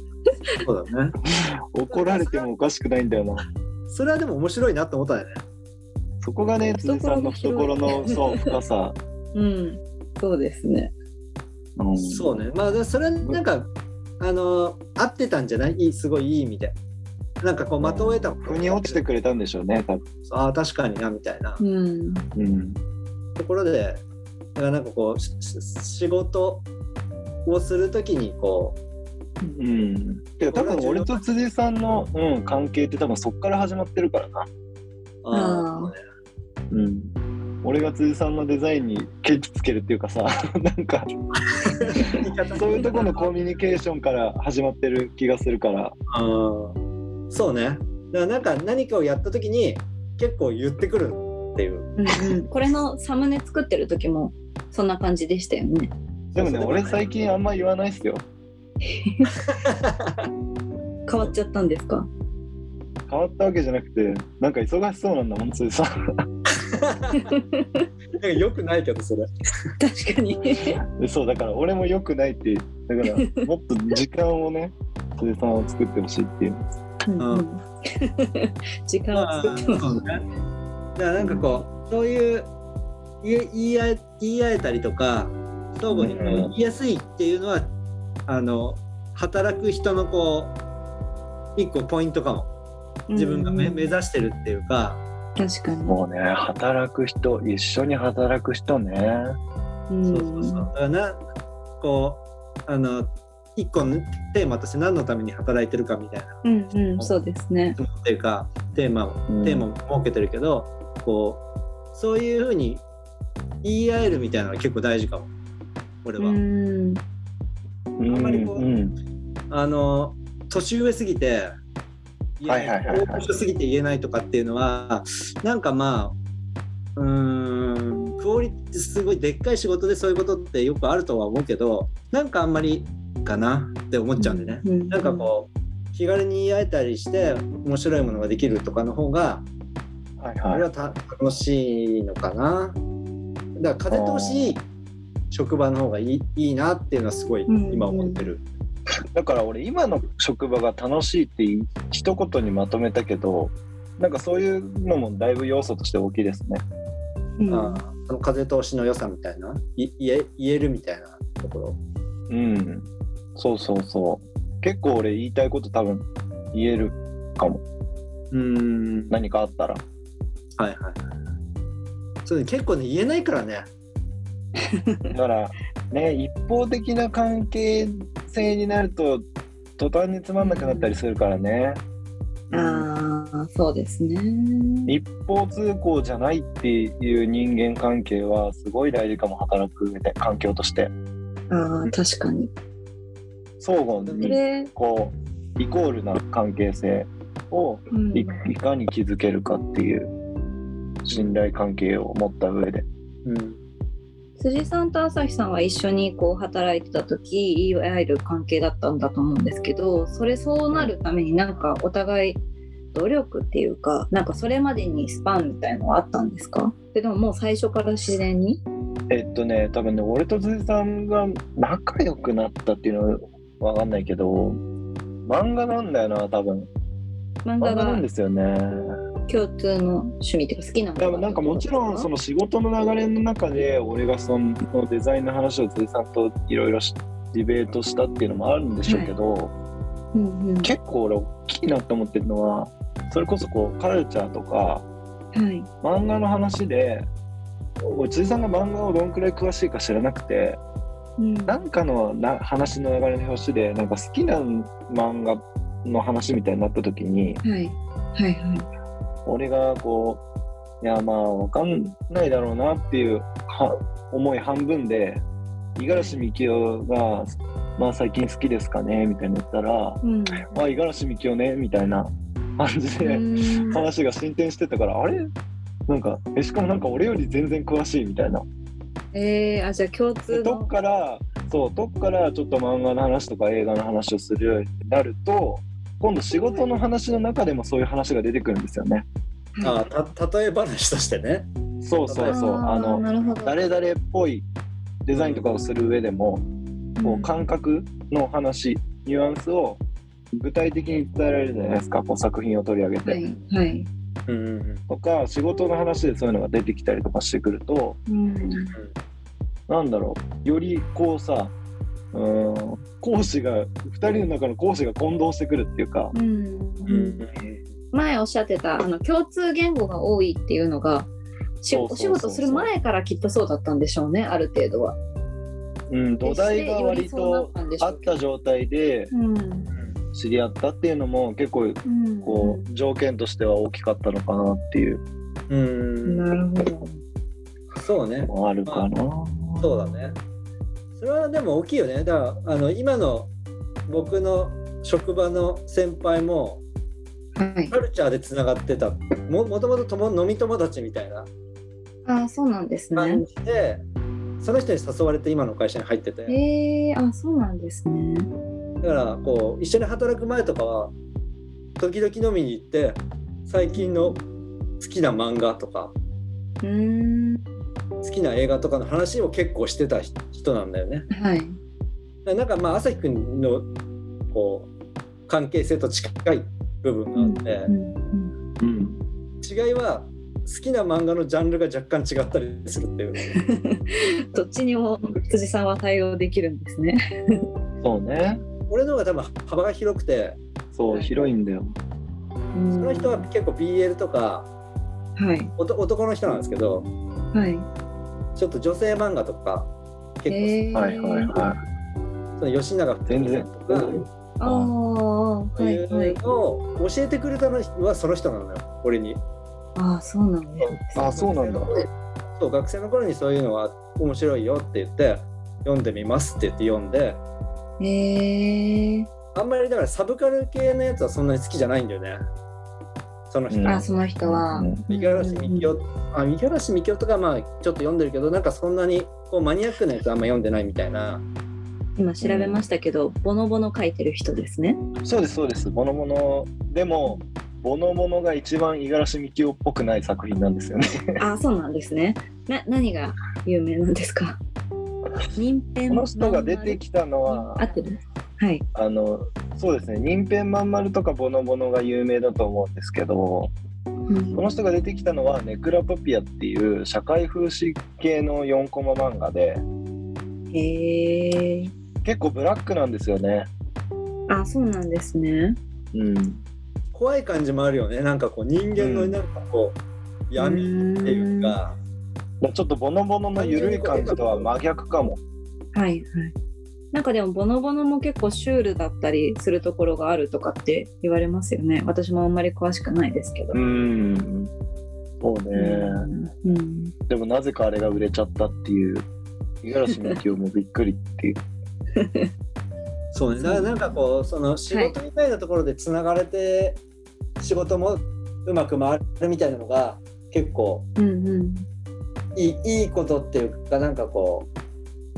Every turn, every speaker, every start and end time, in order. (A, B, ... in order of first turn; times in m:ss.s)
0:00.3-0:00.6 A
0:00.6-0:01.2 B
0:01.3-0:03.4 C
0:01.9-0:02.5 B
0:03.9-0:05.4 B
0:06.2-0:09.0 C
0:06.7-0:08.4 A
0:09.3-0:10.9 A
0:11.8-0:12.3 C
0:12.0-0:16.8 B
0:17.4-0:19.0 B
0:17.8-0:20.0 C
0:20.2-0:21.6 B
0:21.6-0:22.2 A
0:22.3-0:22.8 C
0:23.4-0:24.0 B
0:24.6-0:26.6 B
0:27.4-0:28.8 B
0:29.4-0:34.5 C
0:30.4-0:31.2 B
0:35.2-0:36.0 B
0:35.3-0:35.9 A
0:36.7-0:37.1 C
0:37.6-0:41.1 C
0:41.5-0:43.6 B
0:42.0-0:42.2 A
0:42.5-0:45.9 C
0:46.1-0:46.8 B
0:47.3-0:52.0 B
0:52.0-0:55.9 A
0:56.3-0:57.1 B
0:56.4-0:58.2 C
0:58.8-0:59.4 A
0:59.5-1:00.2 B
1:01.1-1:02.1 A
1:03.1-1:05.9 C
1:06.7-1:07.3 B
1:07.1-1:07.8 A
1:08.2-1:09.3 B
1:09.8-1:10.8 A
1:11.0-1:16.6 C
1:13.0-1:13.5 A
1:17.0-1:19.8 A
1:17.2-1:17.4 B
1:19.1-1:20.2 B
1:21.0-1:22.5 B
1:21.2-1:21.4 C
1:23.2-1:27.7 B
1:25.9-1:26.5 C
1:26.0-1:26.4 A
1:28.3-1:30.5 B
1:31.6-1:32.5 B
1:33.1-1:33.9 A
1:33.1-1:35.0 B
1:35.4-1:36.0 A
1:35.8-1:39.4 C
1:39.9-1:40.7 A
1:40.0-1:41.2 B
1:41.8-1:46.4 B
1:46.4-1:47.8 A
1:47.8-1:51.4 B
1:49.3-1:49.7 C
1:51.9-1:52.8 B
1:53.6-1:55.3 B
1:56.0-1:56.4 B
1:56.2-1:57.0 A
1:58.0-1:59.0 C
1:58.1-1:58.6 B
1:59.5-2:01.5 B
2:02.4-2:06.1 B
2:02.5-2:03.2 C
2:07.0-2:19.4 B
2:14.2-2:15.3 A
2:20.2-2:20.7 C
2:20.5-2:22.8 B
2:23.6-2:24.6 B
2:23.9-2:24.6 C
2:25.3-2:28.4 B
2:27.5-2:28.2 A
2:29.1-2:36.6 C
2:37.4-2:37.8 A
2:37.5-2:41.8 B
2:42.3-2:47.6 C
2:48.3-2:49.1 B
2:49.1-2:49.8 C
2:50.6-2:51.0 B
2:52.2-2:53.7 B
2:54.7-2:55.1 A
2:55.1-2:59.2 C
2:59.8-3:01.8 C
3:00.4-3:00.9 A
3:02.5-3:04.9 A
3:04.8-3:10.9 C
3:11.5-3:12.5 A
3:13.6-3:20.1 C
3:13.9-3:14.4 B
3:14.2-3:14.7 A
3:17.9-3:18.4 A
3:21.0-3:22.8 C
3:21.1-3:21.4 B
3:23.2-3:23.6 B
3:24.4-3:32.4 A
3:32.9-3:38.6 A
3:39.1-3:44.6 C
3:45.2-3:46.7 C
3:47.4-3:48.0 A
3:47.6-3:48.9 C
3:49.3-3:52.1 A
3:51.0-3:59.5 C
3:58.8-3:59.1 A
4:00.1-4:00.7 A
4:00.6-4:04.8 C
4:05.3-4:05.7 A
4:05.8-4:07.1 C
4:07.8-4:10.6 C
4:11.2-4:11.6 A
4:11.5-4:17.4 C
4:17.4-4:18.7 A
4:19.2-4:20.2 C
4:20.8-4:25.2 C
4:25.8-4:35.3 C
4:25.9-4:26.2 A
4:30.0-4:30.6 A
4:33.0-4:33.8 A
4:35.9-4:38.4 C
4:39.1-4:40.7 A
4:40.3-4:49.0 C
4:49.5-4:49.8 A
4:49.6-4:51.5 B
4:51.8-4:54.5 C
4:52.1-4:52.4 B
4:52.3-4:53.6 A
4:55.0-4:56.4 C
4:55.1-4:55.5 B
4:57.0-4:57.3 A
4:57.0-4:59.8 C
5:00.3-5:03.2 C
5:03.0-5:03.9 A
5:04.3-5:04.8 B
5:04.9-5:08.0 C
5:08.1-5:08.7 A
5:09.7-5:11.5 C
5:12.1-5:16.1 C
5:16.1-5:17.2 A
5:16.8-5:17.6 B
5:17.9-5:21.1 A
5:21.6-5:25.0 A
5:21.7-5:22.7 C
5:25.9-5:29.1 C
5:26.2-5:28.1 A
5:29.1-5:29.7 A
5:30.1-5:35.0 C
5:31.8-5:32.7 A
5:35.5-5:36.3 B
5:36.0-5:37.0 A
5:37.7-5:38.9 B
5:38.2-5:40.0 C
5:39.6-5:40.2 B
5:41.0-5:43.3 B
5:43.9-5:46.6 B
5:47.4-5:47.8 A
5:47.7-5:51.3 B
5:52.0-5:53.2 A
5:52.9-5:53.8 B
5:54.4-5:56.4 B
5:56.3-5:58.3 A
5:58.8-6:00.9 B
6:01.8-6:04.2 B
6:03.7-6:04.2 A
6:04.8-6:05.9 B
6:06.6-6:07.5 A
6:08.0-6:11.1 B
6:11.1-6:11.6 A
6:12.2-6:13.7 B
6:14.3-6:14.7 B
6:15.3-6:17.7 B
6:17.2-6:18.3 A
6:18.6-6:19.0 C
6:19.4-6:23.2 B
6:23.3-6:27.5 A
6:27.8-6:28.4 C
6:28.7-6:30.4 B
6:30.7-6:31.8 C
6:32.5-6:33.3 A
6:32.8-6:34.5 B
6:35.2-6:35.5 A
6:35.6-6:36.9 B
6:37.3-6:37.7 A
6:38.4-6:39.7 B
6:40.2-6:40.6 B
6:40.3-6:41.4 A
6:40.7-6:41.6 C
6:42.4-6:44.0 B
6:43.1-6:44.7 C
6:44.4-6:46.2 A
6:45.6-6:49.2 B
6:49.8-6:51.1 A
6:50.8-6:57.2 B
6:50.9-6:51.7 C
6:57.8-6:59.1 A
6:59.3-7:02.2 B
7:03.3-7:03.9 B
7:03.5-7:04.8 C
7:03.6-7:05.7 A
7:04.9-7:11.2 B
7:12.0-7:14.8 A
7:12.2-7:12.6 C
7:15.0-7:21.2 C
7:21.2-7:24.4 A
7:25.3-7:28.6 A
7:25.9-7:27.7 C
7:28.7-7:33.5 C
7:34.1-7:34.4 A
7:34.4-7:39.6 C
7:40.5-7:41.7 A
7:42.0-7:43.5 C
7:44.3-7:45.6 A
7:45.9-7:46.4 C
7:46.9-7:51.8 B
7:48.8-7:49.2 C
7:50.4-7:51.6 A
7:52.4-7:55.2 C
7:53.4-7:54.5 B
7:55.7-7:56.3 A
7:56.9-8:03.6 A
8:03.5-8:04.5 C
8:05.2-8:06.1 C
8:05.5-8:06.9 A
8:07.1-8:09.1 C
8:09.6-8:11.4 C
8:09.9-8:10.1 A
8:12.0-8:12.3 A
8:13.1-8:16.8 B
8:13.4-8:13.9 A
8:17.4-8:20.9 B
8:21.0-8:21.7 A
8:22.4-8:24.5 B